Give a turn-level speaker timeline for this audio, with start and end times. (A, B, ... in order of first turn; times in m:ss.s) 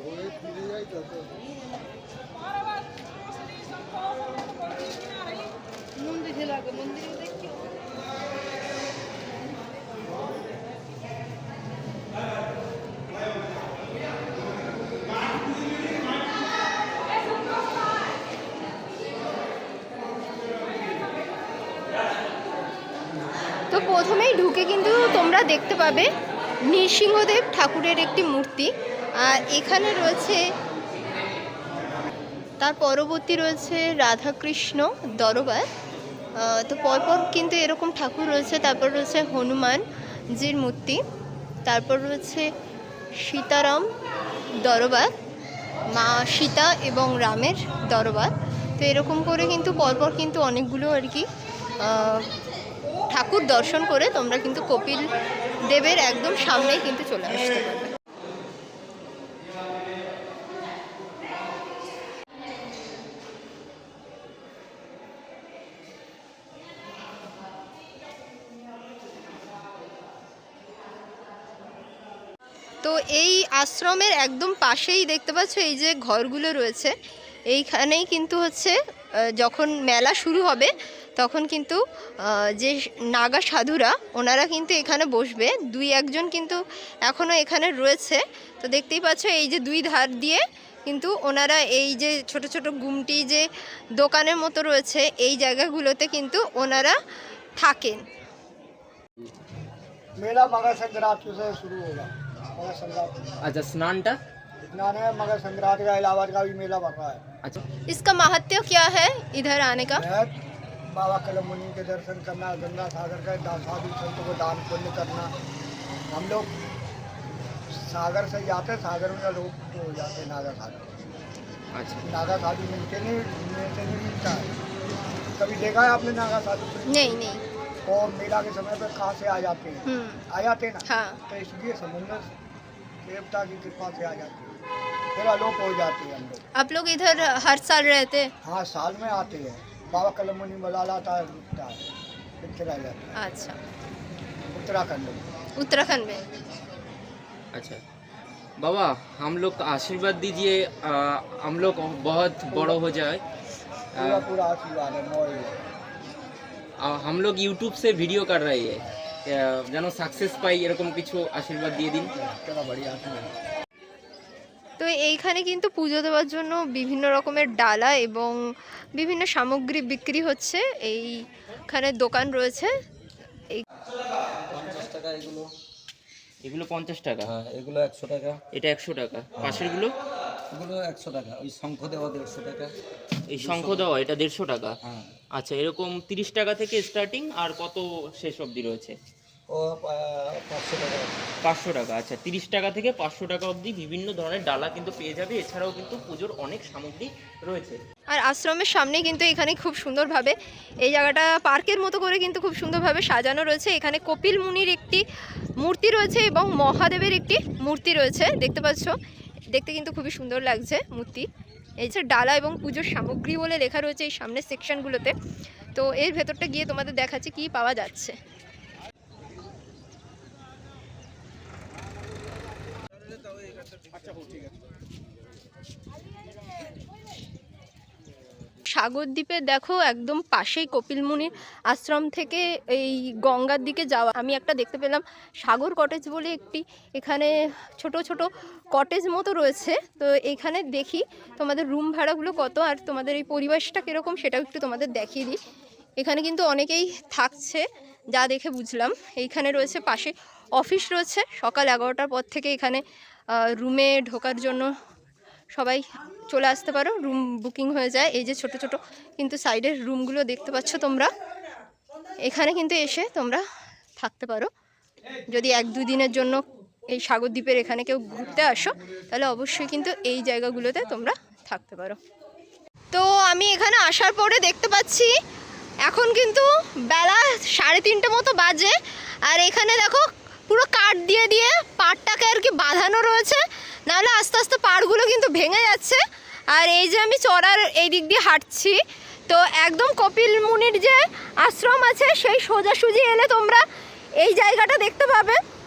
0:23.7-0:26.1 A
0:26.7-0:28.7 A
0:29.2-0:30.4 A
0:32.6-0:35.7 A
0:36.4-0:39.8 A
0:40.4-0:41.0 A
0:41.7-0:42.5 A
0:43.2-0:43.9 A
0:44.6-0:45.1 A
0:45.9-0:51.3 A
0:51.8-0:52.3 A
0:53.1-0:55.1 A
0:55.7-0:58.0 A
1:12.8-1:16.9 A
1:17.5-1:18.8 A
1:19.4-1:33.4 A
1:34.0-1:37.0 A
1:37.6-1:38.0 A
1:40.2-1:43.4 B
1:43.4-1:44.2 C
1:44.7-1:47.2 B
1:47.9-1:50.0 A
1:49.9-1:50.4 B
1:50.9-1:55.3 B
1:56.1-1:56.5 B
1:57.7-2:00.9 B
2:01.8-2:02.0 C
2:02.0-2:04.6 B
2:05.4-2:07.2 B
2:06.9-2:07.4 A
2:07.9-2:12.3 B
2:09.9-2:10.2 A
2:10.9-2:11.2 A
2:13.0-2:14.6 B
2:15.2-2:16.4 B
2:16.6-2:18.3 A
2:18.4-2:21.8 B
2:22.4-2:23.1 B
2:23.2-2:23.6 A
2:24.5-2:25.2 B
2:25.6-2:26.2 A
2:27.5-2:27.8 C
2:28.6-2:33.2 C
2:32.5-2:32.8 B
2:34.0-2:34.3 C
2:34.0-2:35.6 B
2:36.8-2:42.1 C
2:42.2-2:43.3 B
2:44.8-2:48.4 A
2:49.0-2:51.2 A
2:51.7-2:52.7 A
2:54.5-2:55.5 D
2:56.4-2:57.3 C
2:57.2-2:58.4 D
2:58.5-3:00.0 C
3:00.5-3:02.7 D
3:03.3-3:04.8 C
3:03.4-3:03.9 D
3:04.8-3:05.1 D
3:05.4-3:09.0 C
3:09.5-3:11.2 D
3:11.4-3:17.8 C
3:18.1-3:25.0 A
3:25.6-3:29.0 A
3:29.5-3:31.3 A
3:31.8-3:35.2 A
3:35.7-3:38.2 A
3:48.7-4:05.4 A
4:06.0-4:12.8 A
4:13.4-4:14.7 A
4:15.5-4:21.1 A
4:22.2-4:23.4 A
4:24.0-4:24.5 A
4:25.3-4:32.0 A
4:32.9-4:35.1 A
4:35.8-4:38.8 A
4:39.3-4:46.0 A
4:46.5-4:53.6 A
4:54.2-4:55.4 A